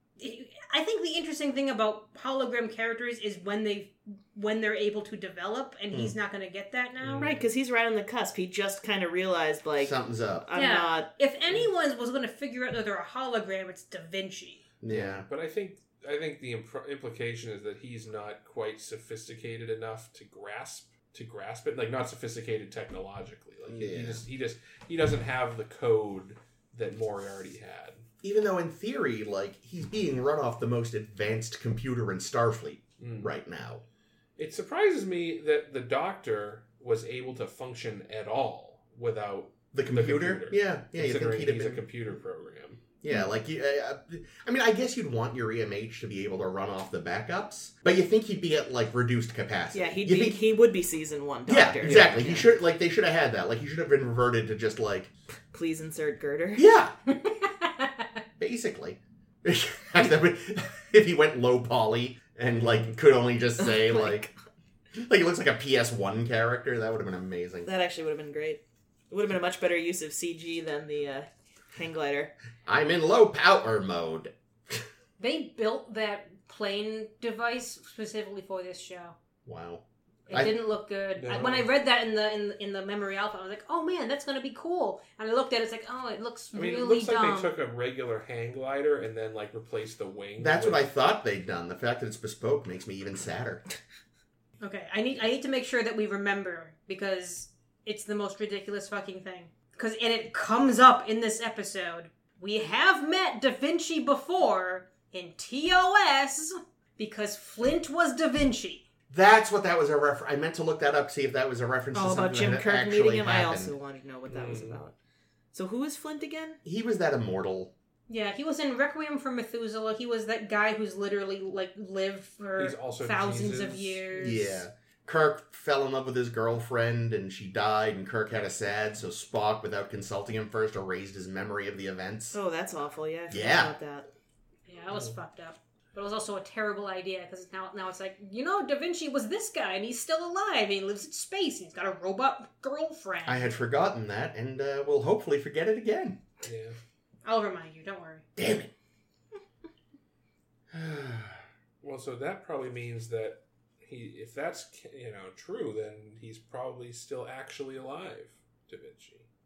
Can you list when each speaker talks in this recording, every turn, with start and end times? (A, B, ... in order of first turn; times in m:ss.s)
0:00.2-0:07.3 A
0:07.0-0:07.4 B
0:07.2-0:11.1 C
0:09.8-0:10.5 D
0:10.5-0:14.6 A
0:14.8-0:15.3 D
0:14.9-0:28.0 B
0:23.7-0:24.2 D
0:28.2-0:33.8 D
0:33.0-0:33.3 B
0:34.4-0:42.8 B
0:39.7-0:41.8 D
0:43.0-0:50.4 D
0:49.7-0:52.5 C
0:51.5-0:55.1 D
0:55.5-0:56.7 C
0:56.6-0:56.9 D
0:57.1-0:58.1 A
0:58.4-1:04.3 D
1:03.8-1:04.3 C
1:04.9-1:07.7 D
1:07.6-1:12.3 C
1:12.6-1:14.9 D
1:15.2-1:19.2 A
1:19.4-1:20.5 D
1:20.3-1:27.5 A
1:21.2-1:21.7 B
1:26.5-1:30.9 B
1:30.4-1:33.6 D
1:34.6-1:48.9 A
1:49.1-1:53.7 D
1:51.9-1:54.9 C
1:54.3-1:54.8 B
1:55.5-1:56.6 C
1:56.6-1:57.7 D
1:58.1-2:04.6 A
2:02.6-2:04.1 B
2:04.2-2:12.4 D
2:12.3-2:14.1 C
2:13.3-2:13.7 D
2:14.7-2:23.5 A
2:23.2-2:26.2 D
2:26.4-2:26.8 B
2:27.2-2:28.2 A
2:28.4-2:28.7 D
2:30.7-2:31.4 D
2:31.8-2:39.2 B